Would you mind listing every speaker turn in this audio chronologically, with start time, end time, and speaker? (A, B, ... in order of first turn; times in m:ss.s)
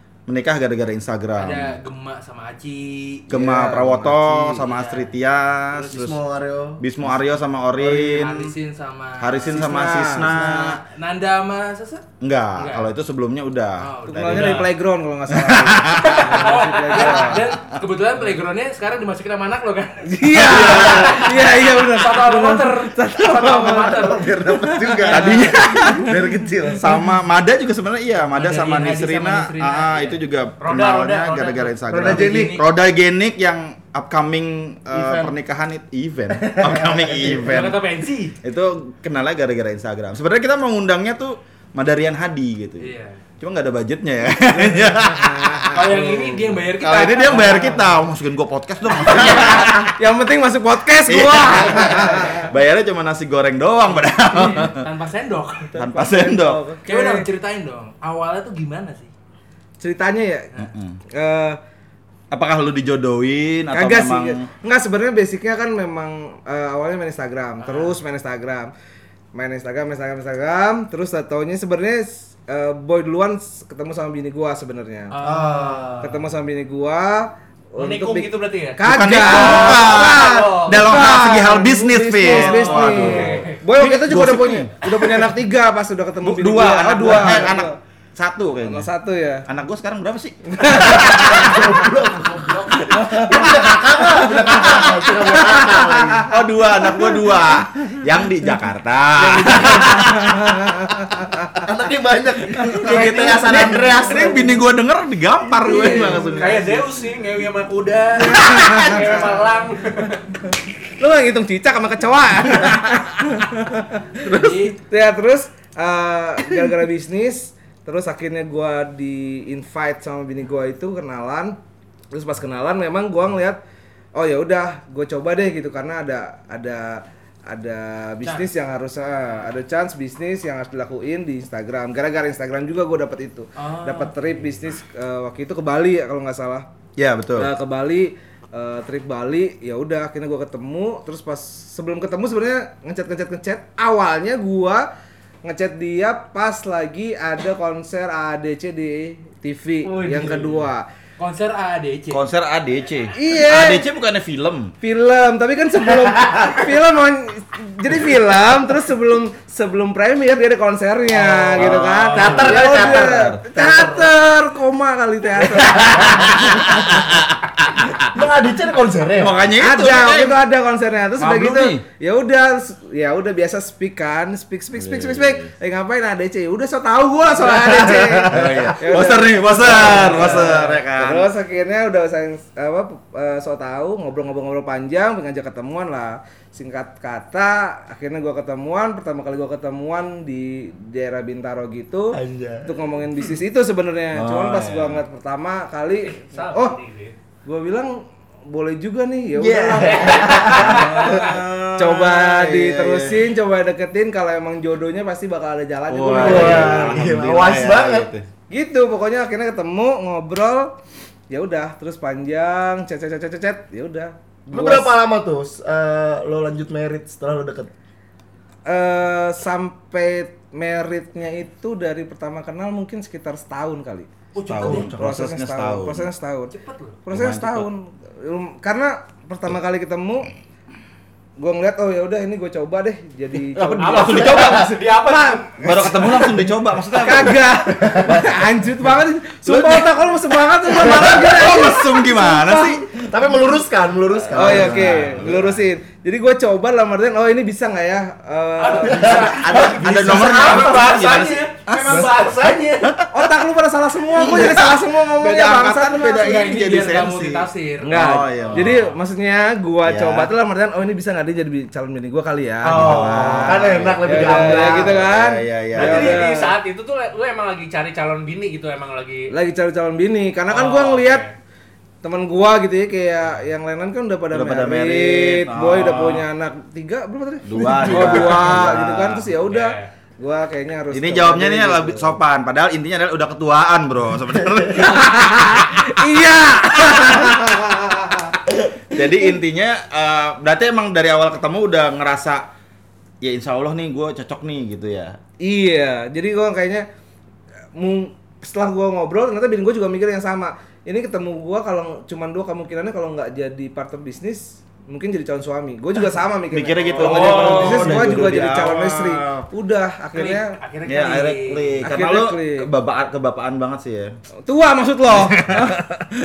0:00.3-0:01.7 A
0:01.4-0:03.3 B
0:03.3-0:06.2 A
0:03.3-0:04.6 C
0:04.6-0:05.1 B
0:05.7-0:07.1 D
0:06.8-0:08.5 A
0:07.9-0:09.6 B
0:09.2-0:10.8 A
0:09.5-0:10.7 C
0:10.6-0:12.9 B
0:12.2-0:14.7 A
0:13.8-0:14.7 B
0:14.1-0:17.4 C
0:15.3-0:16.5 A
0:16.0-0:24.3 B
0:17.1-0:17.8 A
0:20.1-0:25.0 C
0:20.4-0:21.2 A
0:20.5-0:21.2 D
0:23.3-0:26.9 D
0:25.1-0:26.1 A
0:25.2-0:25.5 B
0:26.8-0:37.8 A
0:28.4-0:30.2 B
0:30.6-0:31.8 E
0:31.9-0:32.6 D
0:32.0-0:32.6 B
0:34.9-0:35.4 D
0:36.4-0:37.4 D
0:37.3-0:38.4 B
0:38.4-0:45.9 A
0:42.8-0:43.2 B
0:45.2-0:45.7 C
0:45.7-0:47.8 B
0:46.0-0:46.4 E
0:46.8-0:50.0 A
0:49.2-0:49.7 B
0:50.0-0:52.5 C
0:51.0-0:54.9 A
0:54.3-0:55.8 B
0:55.8-0:56.7 A
0:55.8-0:57.3 C
0:56.8-0:59.1 B
0:59.8-1:01.6 C
1:00.6-1:01.0 A
1:02.3-1:04.5 A
1:03.7-1:08.7 C
1:07.6-1:08.0 B
1:09.3-1:15.1 C
1:15.1-1:16.1 B
1:15.2-1:16.1 D
1:16.0-1:27.8 C
1:17.8-1:20.8 E
1:18.8-1:25.3 A
1:22.3-1:23.0 D
1:22.9-1:23.6 E
1:26.2-1:28.9 A
1:28.6-1:29.5 C
1:29.5-1:31.7 A
1:30.5-1:31.8 C
1:30.9-1:36.3 D
1:32.2-1:32.9 E
1:32.9-1:33.5 C
1:34.2-1:36.2 C
1:34.6-1:35.1 A
1:36.3-1:40.7 A
1:39.4-1:41.6 C
1:41.6-1:44.6 D
1:42.7-1:46.8 A
1:42.8-1:44.1 C
1:45.6-1:46.8 B
1:45.9-1:46.3 C
1:46.2-1:50.2 E
1:48.2-1:49.5 C
1:51.0-1:54.1 C
1:54.2-1:54.7 A
1:54.2-1:54.8 B
1:54.8-2:01.6 C
2:02.1-2:03.6 C
2:04.2-2:16.7 C
2:08.2-2:08.5 B
2:13.6-2:14.1 B
2:17.0-2:17.5 A
2:17.4-2:24.9 C
2:25.4-2:30.9 C
2:29.9-2:30.6 D
2:31.2-2:32.2 B
2:32.1-2:34.7 A
2:33.2-2:33.8 C
2:34.8-2:46.5 C
2:41.1-2:44.0 D
2:41.5-2:43.5 A
2:45.8-2:46.9 D
2:46.0-2:48.1 A
2:48.1-2:49.5 D
2:49.2-2:50.4 A
2:49.6-3:16.8 C
2:51.2-2:51.8 A
2:54.8-2:55.5 A
2:57.4-2:58.8 D
2:58.3-3:01.3 A
3:12.1-3:12.8 D
3:14.1-3:15.0 A
3:16.0-3:17.2 E
3:17.4-3:27.0 C
3:19.4-3:21.1 D
3:19.9-3:23.2 A
3:25.9-3:28.3 A
3:26.1-3:28.1 D
3:28.5-3:30.7 C
3:31.3-3:34.9 C
3:34.5-3:37.7 D
3:38.7-3:46.5 C
3:44.3-3:45.0 B
3:44.5-3:46.1 A
3:46.5-3:47.0 B
3:47.1-3:50.3 C
3:47.1-3:47.7 A
3:51.4-3:56.3 C
3:53.5-3:54.7 A
3:53.8-3:56.0 E
3:55.6-3:58.4 A
3:57.0-4:02.6 C
3:57.8-3:58.2 D
3:59.4-3:59.9 A
4:00.7-4:02.9 A
4:02.5-4:05.2 D
4:04.3-4:09.4 C
4:04.3-4:05.6 A
4:08.6-4:11.2 B
4:08.7-4:09.6 E
4:08.9-4:13.0 D
4:09.2-4:12.2 A
4:10.2-4:12.4 E
4:12.8-4:13.4 A
4:13.1-4:16.6 C
4:14.1-4:18.8 A
4:16.1-4:18.4 B
4:17.8-4:26.6 C
4:18.4-4:18.9 E
4:19.8-4:20.3 A
4:22.6-4:25.0 D
4:22.7-4:26.2 A
4:25.8-4:29.3 E
4:29.3-4:31.3 C
4:30.5-4:31.3 E
4:32.0-4:42.2 C
4:34.3-4:36.3 A
4:37.4-4:39.3 A
4:39.4-4:39.9 E
4:40.9-4:45.8 A
4:44.8-4:48.4 C
4:48.9-4:52.4 A
4:53.2-4:55.2 A
4:55.4-4:56.9 C
4:57.8-5:10.6 C
5:06.5-5:09.4 A
5:07.3-5:07.8 E
5:07.7-5:08.4 D
5:10.1-5:11.8 B
5:10.9-5:14.2 A
5:11.8-5:12.7 C
5:14.4-5:16.0 C
5:15.1-5:16.0 A